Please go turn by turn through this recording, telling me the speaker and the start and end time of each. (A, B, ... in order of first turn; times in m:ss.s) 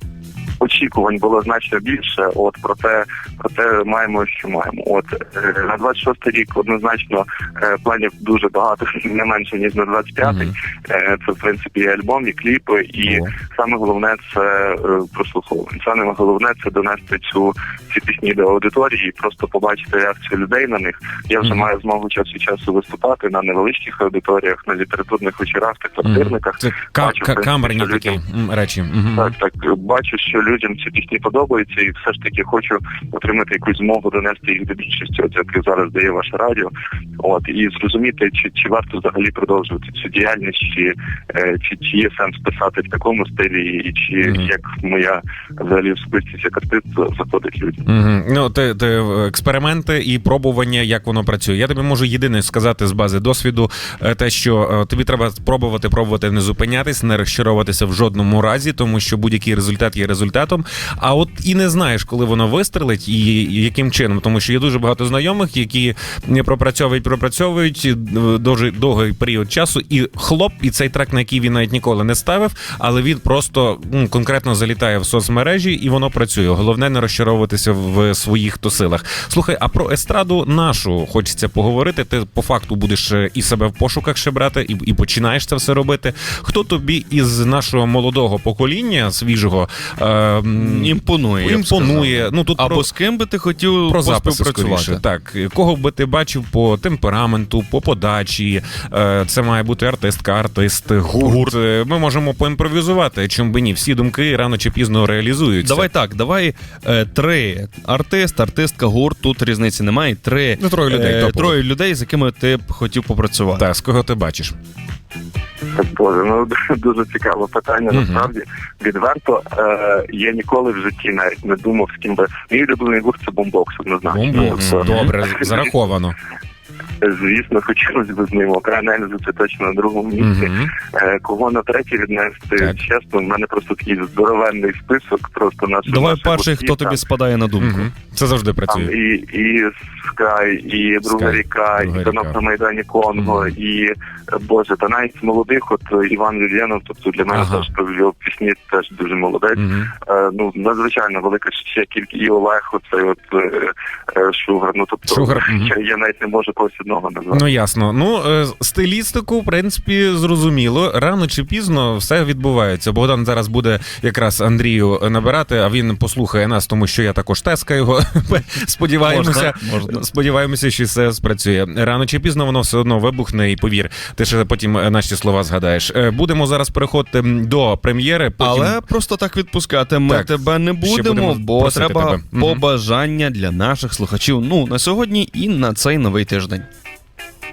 0:00.6-0:28.2 A
0:10.2-0:10.5 B
0:26.0-0:29.3 B
0:29.1-0:47.8 A
0:44.2-0:44.5 B
0:47.8-1:32.9 B
1:30.6-1:35.0 C
1:33.9-1:45.9 B
1:41.2-1:41.5 C
1:45.6-1:53.6 C
1:50.6-1:51.6 B
1:53.6-1:54.5 B
1:55.7-2:05.7 A
1:57.9-1:58.3 B
2:04.1-2:06.1 B
2:07.0-2:17.0 A
2:10.2-2:10.7 B
2:15.8-2:17.9 C
2:17.6-2:18.9 B
2:18.7-2:37.4 A
2:21.1-2:22.4 B
2:23.2-2:23.5 B
2:27.3-2:27.7 B
2:29.6-2:29.9 B
2:35.1-2:35.7 B
2:37.3-2:58.8 B
2:49.0-2:50.0 C
2:58.4-3:06.7 C
3:00.1-3:02.6 B